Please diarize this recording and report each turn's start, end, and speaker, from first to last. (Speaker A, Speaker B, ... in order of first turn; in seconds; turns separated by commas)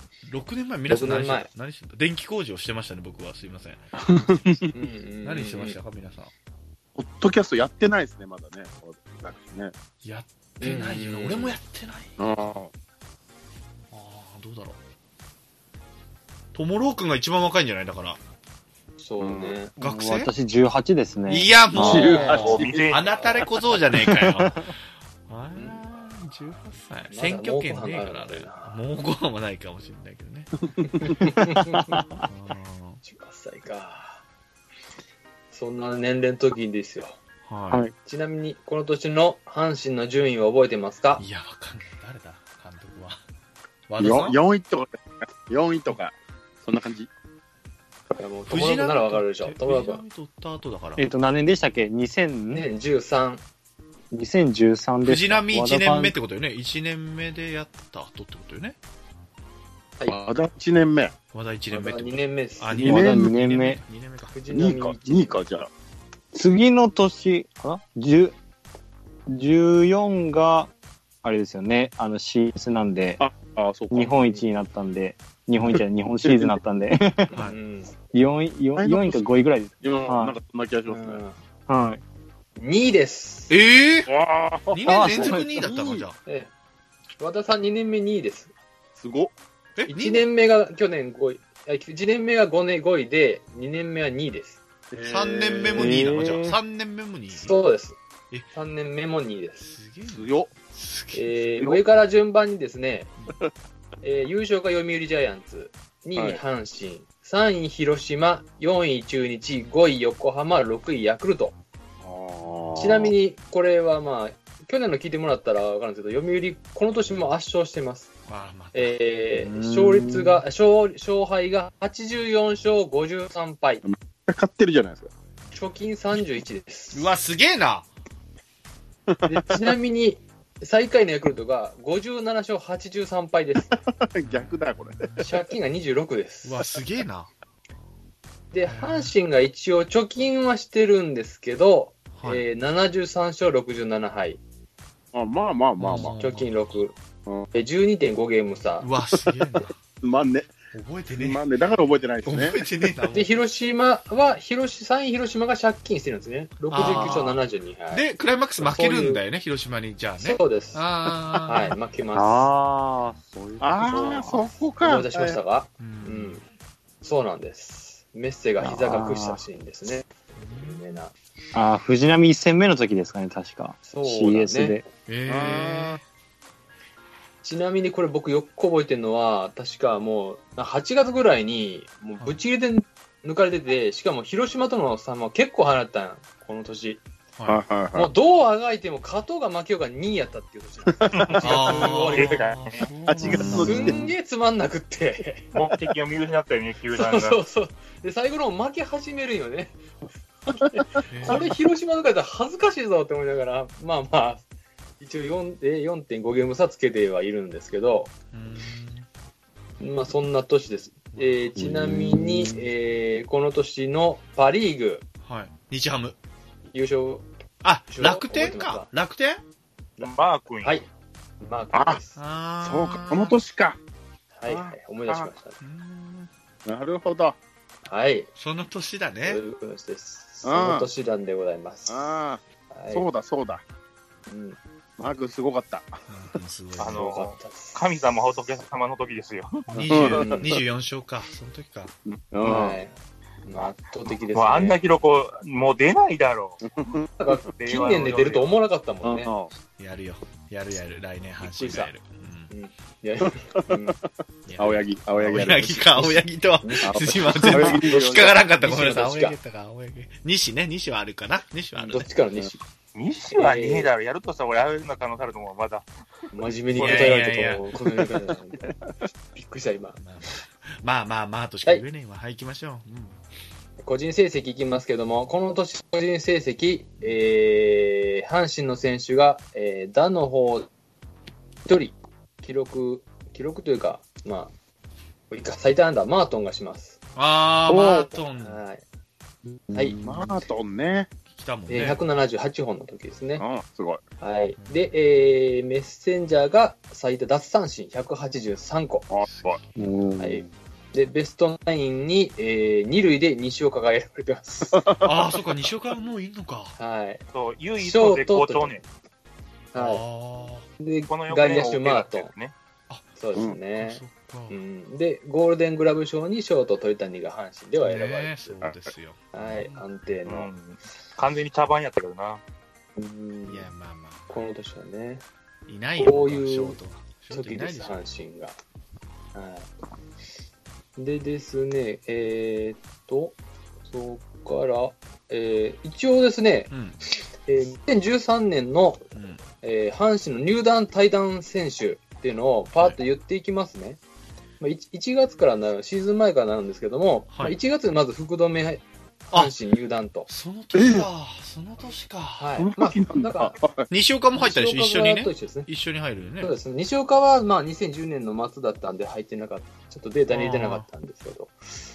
Speaker A: 0.3-3.8, Speaker B: 0.9-1.5, Speaker C: 4.1-4.6, Speaker B: 4.7-5.8, Speaker A: 5.2-6.3, Speaker C: 7.0-9.7, Speaker A: 10.0-12.5, Speaker B: 10.6-11.6, Speaker C: 12.2-12.7, Speaker A: 13.9-14.8, Speaker A: 16.5-18.2, Speaker B: 19.0-19.7, Speaker C: 19.2-19.6, Speaker A: 19.8-20.3, Speaker D: 19.8-22.4, Speaker A: 21.3-24.7, Speaker C: 21.7-22.9, Speaker B: 21.8-22.5, Speaker E: 22.3-23.4, Speaker D: 24.2-24.5, Speaker A: 25.3-31.1, Speaker B: 25.6-25.8, Speaker B: 27.1-28.8, Speaker B: 30.8-32.0, Speaker A: 32.3-33.0, Speaker B: 33.0-34.2, Speaker B: 35.5-37.2, Speaker A: 37.4-37.9, Speaker B: 38.0-41.2, Speaker A: 41.2-43.2, Speaker A: 43.9-44.4, Speaker C: 44.0-47.1, Speaker B: 48.1-50.0, Speaker A: 48.5-51.0, Speaker D: 51.0-52.6, Speaker B: 52.5-53.4, Speaker D: 54.1-56.1, Speaker A: 55.0-58.8, Speaker C: 60.1-61.1, Speaker A: 61.3-64.3, Speaker B: 61.7-62.9, Speaker C: 62.7-63.3, Speaker D: 62.8-63.8, Speaker B: 64.3-65.5, Speaker C: 64.5-65.7, Speaker D: 66.3-68.3, Speaker D: 69.3-70.7, Speaker D: 71.2-73.2, Speaker C: 73.2-74.4, Speaker D: 73.9-77.4, Speaker C: 75.7-76.6, Speaker B: 77.4-77.9, Speaker D: 78.1-80.3, Speaker C: 78.8-79.3, Speaker C: 79.8-81.2, Speaker B: 80.9-81.4, Speaker D: 81.7-82.0, Speaker B: 82.6-83.5, Speaker A: 83.5-84.1, Speaker C: 84.1-86.0, Speaker A: 84.7-86.2, Speaker D: 84.8-85.7, Speaker B: 86.2-86.5, Speaker B: 87.2-88.5, Speaker C: 89.0-89.3, Speaker A: 89.8-90.3, Speaker B: 89.9-94.6, Speaker C: 94.9-96.1, Speaker A: 95.0-97.5, Speaker D: 95.7-96.6, Speaker B: 97.3-98.0, Speaker B: 98.5-99.7, Speaker A: 99.6-101.6, Speaker C: 100.1-100.5, Speaker B: 101.1-103.1, Speaker B: 104.0-111.5, Speaker C: 106.1-106.4, Speaker C: 112.0-113.1, Speaker A: 112.4-112.8, Speaker B: 112.8-118.1, Speaker A: 118.3-119.0, Speaker B: 118.7-123.8, Speaker D: 119.4-120.4, Speaker C: 123.8-125.1, Speaker B: 125.5-127.1, Speaker A: 126.9-127.9, Speaker C: 129.1-129.5, Speaker B: 129.2-133.7, Speaker C: 133.7-135.1, Speaker A: 134.2-135.3, Speaker B: 135.2-136.6, Speaker A: 136.4-137.3, Speaker B: 138.5-144.4, Speaker A: 138.7-139.1, Speaker A: 142.2-142.4, Speaker C: 145.1-146.2, Speaker A: 145.8-146.5, Speaker B: 146.2-146.9, Speaker B: 147.5-148.9, Speaker A: 148.8-149.7, Speaker C: 150.0-150.5, Speaker A: 150.7-151.4, Speaker C: 151.1-152.6, Speaker A: 152.2-153.4, Speaker B: 153.1-158.1, Speaker A: 156.7-161.8, Speaker B: 158.6-159.2, Speaker B: 160.2-160.8, Speaker B: 161.4-162.5, Speaker D: 162.1-164.4, Speaker C: 163.6-165.4, Speaker B: 163.9-166.4, Speaker A: 165.8-166.4, Speaker B: 167.0-171.1, Speaker D: 168.6-169.4, Speaker A: 170.4-171.0, Speaker D: 171.5-174.8, Speaker B: 173.8-174.8, Speaker A: 175.1-176.0, Speaker C: 175.3-176.0, Speaker B: 177.4-187.0, Speaker A: 187.3-187.6, Speaker C: 187.5-188.1, Speaker B: 187.9-192.5, Speaker C: 191.0-191.3, Speaker A: 191.4-194.0, Speaker E: 192.1-192.9, Speaker C: 193.1-194.1, Speaker B: 193.5-195.5, Speaker E: 195.5-197.4, Speaker B: 196.9-199.8, Speaker B: 200.5-204.4, Speaker A: 201.1-201.5, Speaker B: 205.0-208.1, Speaker A: 208.3-209.1, Speaker B: 209.8-215.0, Speaker A: 211.1-211.5, Speaker D: 211.6-212.6, Speaker A: 215.2-216.2, Speaker B: 216.7-217.2, Speaker A: 217.6-219.4, Speaker B: 217.9-218.9, Speaker B: 220.0-220.9, Speaker E: 220.0-220.8, Speaker B: 221.4-222.2, Speaker C: 221.7-222.0, Speaker A: 222.2-223.4, Speaker C: 222.6-223.8, Speaker B: 224.3-225.6, Speaker C: 224.5-225.3, Speaker A: 225.6-226.3, Speaker C: 226.7-227.4, Speaker B: 227.8-228.3, Speaker A: 228.4-229.4, Speaker B: 229.2-232.2, Speaker C: 230.4-230.9, Speaker C: 231.9-233.6, Speaker B: 232.7-233.1, Speaker B: 234.3-234.6, Speaker C: 235.0-235.9, Speaker A: 236.1-237.2, Speaker E: 236.8-239.7, Speaker B: 236.9-237.8, Speaker A: 239.7-241.9, Speaker B: 239.8-240.6, Speaker C: 239.9-240.6, Speaker C: 242.3-242.7, Speaker D: 242.3-242.8, Speaker B: 242.4-242.9, Speaker B: 243.4-244.8, Speaker E: 244.3-246.6, Speaker C: 246.7-247.1, Speaker B: 247.2-249.3, Speaker E: 247.6-248.6, Speaker C: 249.0-249.5, Speaker A: 249.8-252.5, Speaker B: 251.4-251.9, Speaker B: 252.5-254.0, Speaker C: 253.6-253.9, Speaker A: 254.5-262.1, Speaker C: 254.6-256.1, Speaker B: 256.6-259.4, Speaker C: 256.8-258.4, Speaker B: 261.8-262.6, Speaker E: 262.9-265.9, Speaker B: 263.3-263.9, Speaker B: 266.3-268.7, Speaker A: 266.7-267.7, Speaker E: 266.8-267.1, Speaker B: 269.3-270.0, Speaker A: 270.0-273.2, Speaker B: 273.8-280.7, Speaker B: 281.6-284.5, Speaker B: 285.3-287.0, Speaker A: 287.1-288.6, Speaker D: 287.7-288.0, Speaker B: 287.7-288.8, Speaker D: 289.5-290.4, Speaker B: 289.7-290.0, Speaker C: 290.0-291.1, Speaker A: 291.3-292.0, Speaker B: 291.7-293.4, Speaker C: 293.4-294.0, Speaker B: 294.2-299.1, Speaker A: 294.6-294.9, Speaker C: 299.1-299.6, Speaker A: 299.3-299.6, Speaker D: 299.8-300.5, Speaker B: 300.2-304.9, Speaker C: 304.7-305.3, Speaker A: 305.0-306.7, Speaker B: 306.8-307.2, Speaker E: 307.3-308.8, Speaker B: 307.8-308.8, Speaker B: 309.7-310.0, Speaker A: 309.7-310.7, Speaker B: 310.8-312.3, Speaker E: 311.1-312.5, Speaker A: 312.9-314.6, Speaker B: 313.2-318.6, Speaker A: 317.8-319.8, Speaker B: 319.3-320.5, Speaker E: 320.3-322.4, Speaker B: 323.0-323.7, Speaker A: 323.4-324.4, Speaker B: 324.3-325.2, Speaker A: 325.7-327.9, Speaker B: 326.0-326.8, Speaker B: 327.3-328.5, Speaker B: 329.3-329.7, Speaker B: 331.0-333.4, Speaker B: 333.9-336.7, Speaker A: 336.7-337.0, Speaker B: 337.4-344.0, Speaker A: 339.1-339.4, Speaker B: 344.6-350.3, Speaker A: 347.3-347.6, Speaker A: 350.3-352.5, Speaker C: 350.7-351.1, Speaker B: 352.4-353.6, Speaker C: 352.6-353.9, Speaker A: 353.9-356.5, Speaker B: 354.4-355.7, Speaker B: 356.4-361.6, Speaker A: 360.3-360.9